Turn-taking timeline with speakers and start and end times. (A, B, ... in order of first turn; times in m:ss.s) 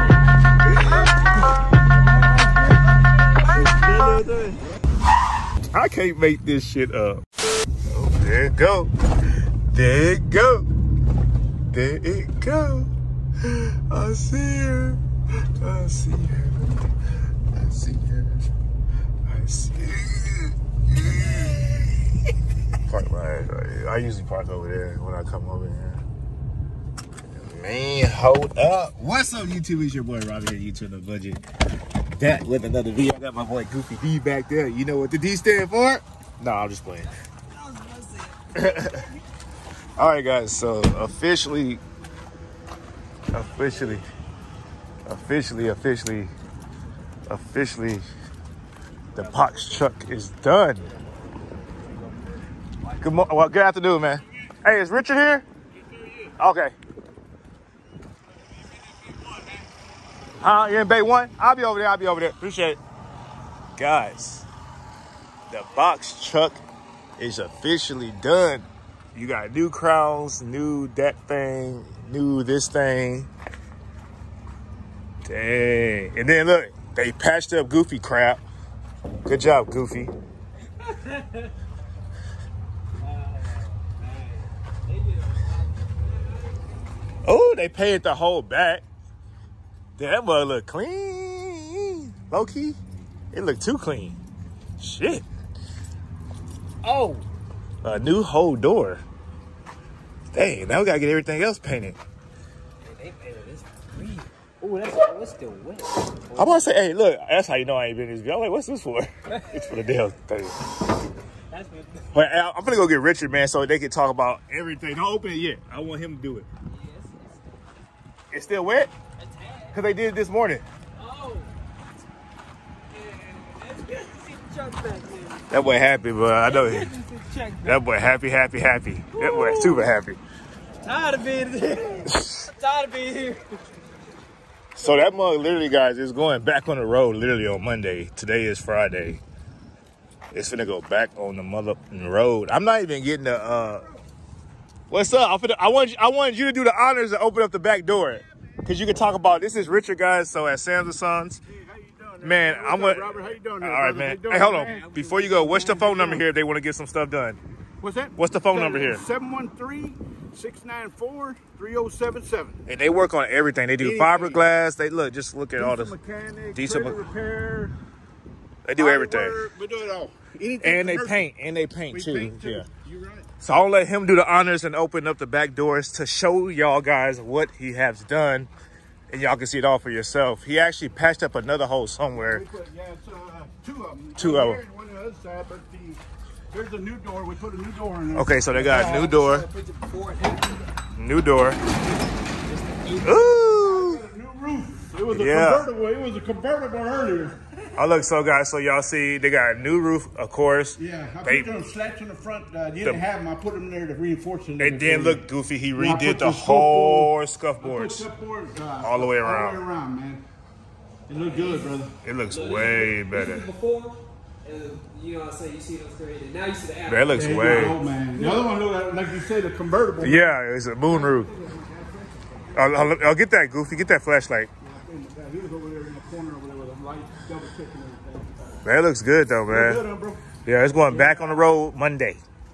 0:00.8-0:01.1 A
0:03.8-0:04.4 A
0:05.7-0:07.2 A
0:07.9-0:08.9 A
0:09.7-0:10.7 A
0:11.7-0:12.9 A
0:13.4-0:16.9 A
0:17.5-0:18.5 A
0:19.3-0:21.9 A
0:22.8-0:26.0 A
0:27.3-0:31.4 A
0:32.1-0:37.1 A
0:37.5-0:39.0 B
0:38.5-0:39.1 A
0:40.0-0:41.8 A
0:43.3-0:44.0 A
0:45.0-0:46.3 A
0:47.3-0:48.0 A
0:49.1-0:50.9 A
0:49.2-0:49.5 B
0:53.0-0:55.4 A
0:55.8-0:56.3 C
0:56.4-0:56.7 A
1:00.4-1:02.8 A
1:03.8-1:04.4 A
1:05.5-1:06.6 A
1:07.2-1:13.3 A
1:15.2-1:18.4 A
1:19.2-1:20.1 A
1:20.8-1:21.5 B
1:23.0-1:26.8 B
1:27.2-1:28.8 A
1:30.0-1:32.8 A
1:33.3-1:34.2 A
1:34.8-1:35.2 A
1:36.8-1:37.2 B
1:37.8-1:39.0 A
1:40.3-1:42.0 A
1:42.8-1:46.6 B
1:46.3-1:50.8 A
1:49.3-1:49.7 B
1:51.5-1:52.1 B
1:52.1-1:56.5 A
1:56.7-1:57.6 B
1:58.3-1:58.9 A
1:59.2-1:59.8 B
1:59.7-2:00.6 A
2:01.0-2:01.5 B
2:02.9-2:05.5 B
2:05.5-2:06.9 A
2:06.4-2:07.8 B
2:07.6-2:10.2 A
2:09.1-2:09.9 B
2:10.8-2:13.6 B
2:12.1-2:12.4 A
2:14.8-2:19.2 A
2:20.3-2:23.9 A
2:24.9-2:31.4 A
2:31.5-2:36.2 C
2:32.2-2:37.4 A
2:35.0-2:35.6 B
2:37.8-2:42.6 C
2:38.2-2:39.0 A
2:42.7-2:45.9 A
2:43.8-2:44.4 C
2:45.6-2:47.7 C
2:46.5-2:47.0 A
2:48.6-2:49.4 A
2:48.8-2:51.3 C
2:50.6-2:52.6 A
2:51.9-2:53.3 C
2:53.4-2:58.5 A
2:59.1-3:02.4 A
3:02.1-3:08.4 C
3:04.2-3:04.6 A
3:08.1-3:09.5 A
3:08.5-3:10.7 B
3:11.0-3:11.6 A
3:12.4-3:13.6 B
3:13.0-3:14.0 A
3:13.5-3:17.4 C
3:15.1-3:15.7 A
3:17.8-3:21.6 A
3:20.8-3:25.2 C
3:24.6-3:28.0 A
3:25.8-3:30.2 C
3:28.8-3:29.6 A
3:31.1-3:31.9 C
3:31.1-3:31.7 B
3:32.0-3:33.5 A
3:32.3-3:37.4 B
3:36.9-3:37.8 A
3:37.1-3:42.6 C
3:40.0-3:41.3 A
3:42.5-3:44.5 A
3:44.6-3:48.6 C
3:48.6-3:49.8 A
3:49.5-3:51.6 C
3:50.4-3:52.2 A